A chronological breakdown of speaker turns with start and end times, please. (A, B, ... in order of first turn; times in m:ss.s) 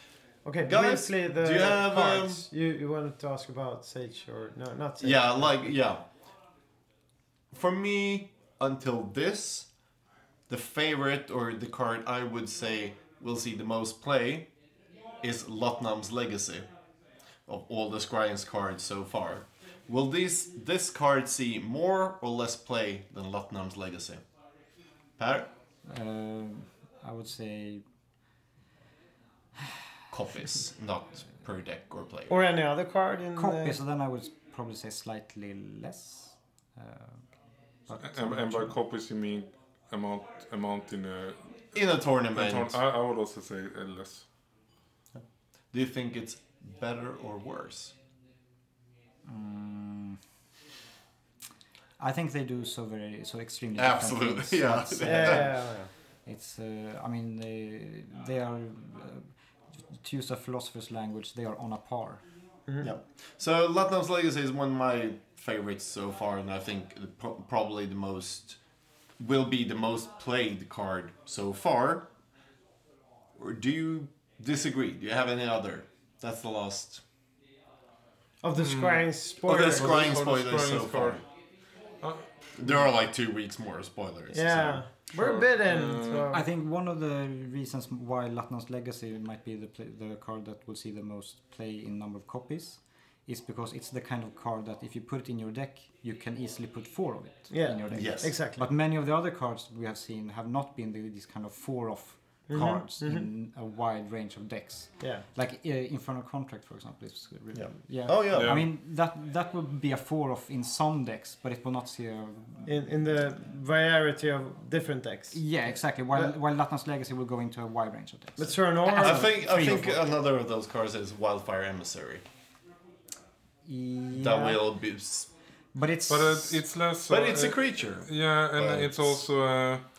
0:00.4-0:05.5 A
0:00.6-0:02.4 B
0:05.0-0:06.0 B
0:07.5-0:09.7 B
0:10.5-0:14.5 B
0:15.2-0:16.7 B
0:17.5-0:24.2 B
0:25.2-0:25.5 B
0:25.8-0:27.8 C
0:30.1-0:32.3 B
0:32.3-0:33.8 A
0:33.3-0:37.2 C
0:37.9-0:38.7 C
0:38.0-0:41.4 D
0:41.7-0:42.8 B
0:42.3-0:44.2 D
0:45.7-0:47.9 B
0:49.2-0:50.2 C
0:52.0-0:55.6 C
0:53.8-0:55.5 B
0:55.0-0:55.9 A
0:56.2-0:59.3 C
0:59.9-1:02.2 C
1:02.8-1:08.6 B
1:09.2-1:12.1 B
1:13.4-1:17.0 B
1:18.4-1:20.2 A
1:18.6-1:19.0 D
1:19.4-1:21.2 B
1:19.5-1:21.2 D
1:22.0-1:22.8 D
1:22.6-1:24.8 B
1:24.3-1:26.5 A
1:25.1-1:26.3 D
1:26.3-1:52.9 C
1:37.5-1:38.6 A
1:37.9-1:38.4 B
1:42.5-1:43.3 A
1:47.5-1:48.6 B
1:48.2-1:48.6 D
1:52.6-1:55.6 A
1:55.3-2:00.0 C
1:58.4-1:59.4 A
1:58.9-2:02.2 B
2:03.6-2:04.6 C
2:04.1-2:05.3 B
2:05.7-2:06.6 C
2:06.1-2:09.8 D
2:07.1-2:09.2 B